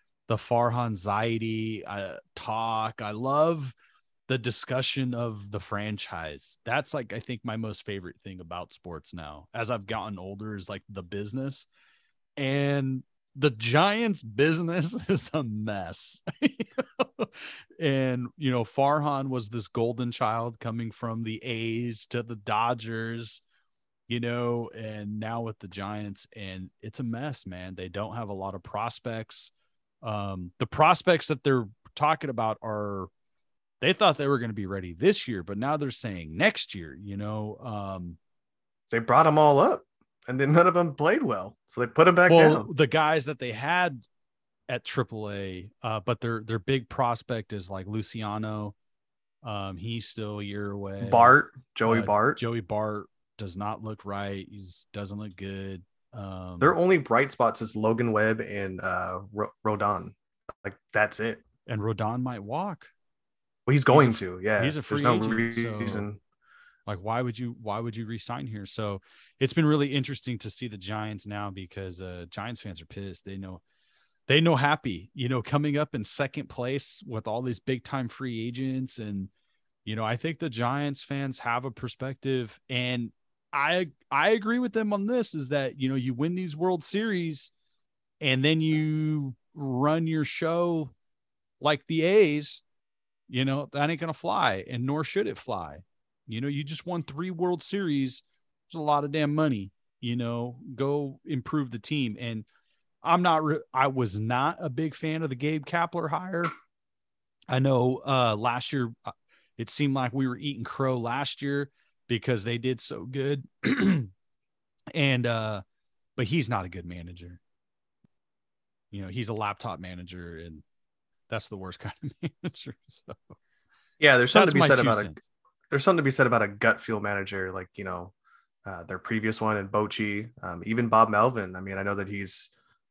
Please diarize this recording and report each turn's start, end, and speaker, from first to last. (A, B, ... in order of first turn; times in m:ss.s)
0:00.3-0:03.7 A
0:04.3-0:11.7 A
0:12.4-0:23.4 A
0:24.1-0:29.5 A
0:30.0-0:33.1 A
0:33.8-0:38.2 A
0:38.9-0:42.7 B
0:42.3-0:44.0 A
0:44.7-0:48.8 A
0:49.4-0:51.3 A
0:51.0-0:52.4 B
0:51.9-0:56.8 A
0:56.6-1:01.4 B
1:01.7-1:02.9 A
1:03.7-1:06.2 B
1:03.9-1:06.0 A
1:06.9-1:13.6 A
1:14.3-1:19.3 A
1:19.8-1:27.5 A
1:28.2-1:30.9 A
1:31.6-1:32.6 A
1:33.3-1:42.4 A
1:43.0-1:46.5 A
1:47.5-1:54.1 A
1:54.9-1:55.6 A
1:56.2-1:57.4 A
1:58.9-2:00.6 A
2:01.3-2:03.4 A
2:04.0-2:05.2 B
2:04.3-2:05.2 A
2:05.7-2:08.1 B
2:08.7-2:12.5 B